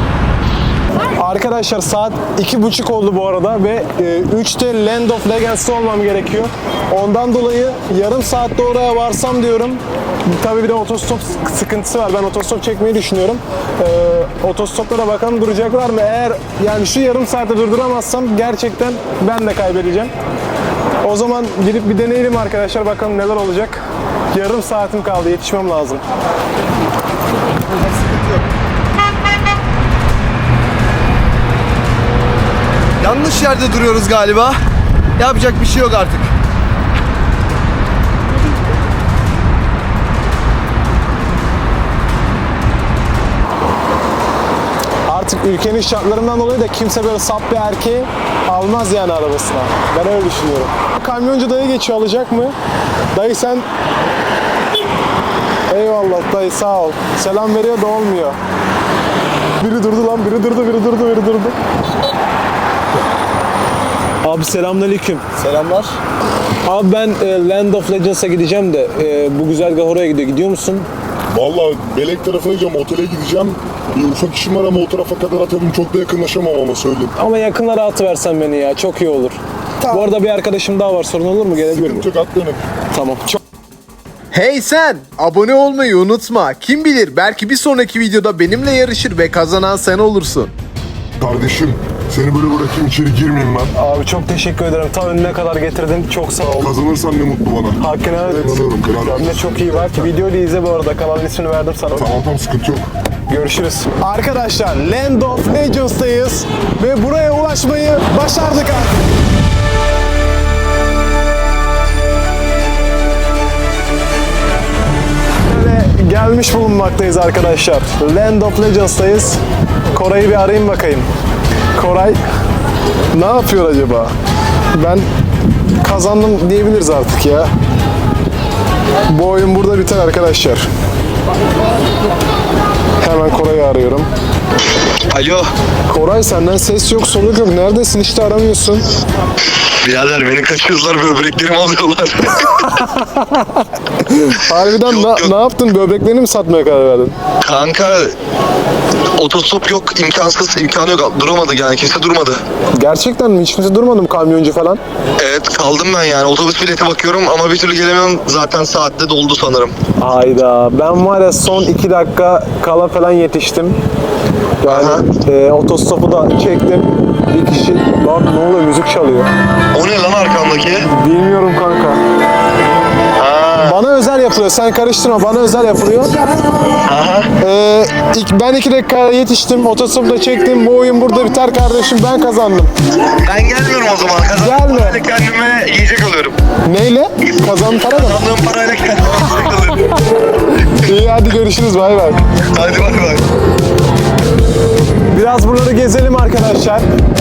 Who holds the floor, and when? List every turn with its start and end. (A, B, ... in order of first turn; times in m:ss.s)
0:01.2-0:20.1 A
0:21.0-0:26.0 A
0:27.7-0:28.5 B
0:33.0-0:34.6 B
0:35.2-0:36.3 B
0:45.1-0:52.6 A
0:53.1-0:53.7 A
0:55.7-0:58.4 A
0:59.6-1:01.6 A
1:04.2-1:05.2 A
1:05.4-1:06.0 B
1:06.6-1:10.9 A
1:11.3-1:17.1 C
1:17.2-1:22.1 A
1:21.6-1:22.6 C
1:22.9-1:23.4 A
1:24.3-1:30.5 D
1:31.2-1:33.7 C
1:33.8-1:36.7 A
1:36.4-1:40.1 C
1:37.8-1:42.1 A
1:41.9-1:42.9 C
1:43.3-1:49.0 A
1:55.5-1:59.4 A
1:59.9-2:01.1 A
2:01.8-2:02.2 A
2:03.1-2:04.1 A
2:04.7-2:05.1 A
2:05.8-2:07.5 A
2:09.1-2:10.7 A
2:13.0-2:14.1 A
2:15.1-2:15.5 E
2:15.9-2:18.8 A
2:19.8-2:22.7 E
2:23.2-2:23.4 A
2:24.0-2:27.2 A
2:24.7-2:25.3 E
2:27.4-2:28.1 E
2:29.2-2:32.4 E
2:32.8-2:34.8 A
2:35.2-2:39.7 E
2:40.0-2:43.8 A
2:44.6-2:49.3 A
2:44.6-2:45.0 E
2:49.7-2:50.8 E
2:50.9-2:52.0 A
2:53.2-2:53.8 E
2:53.6-2:56.2 A
2:56.8-2:57.3 E
2:57.4-3:02.7 A
3:03.2-3:06.4 E
3:04.4-3:05.0 A
3:06.7-3:08.3 A
3:07.8-3:10.0 E
3:10.8-3:12.2 A
3:12.5-3:13.2 E
3:15.1-3:16.8 A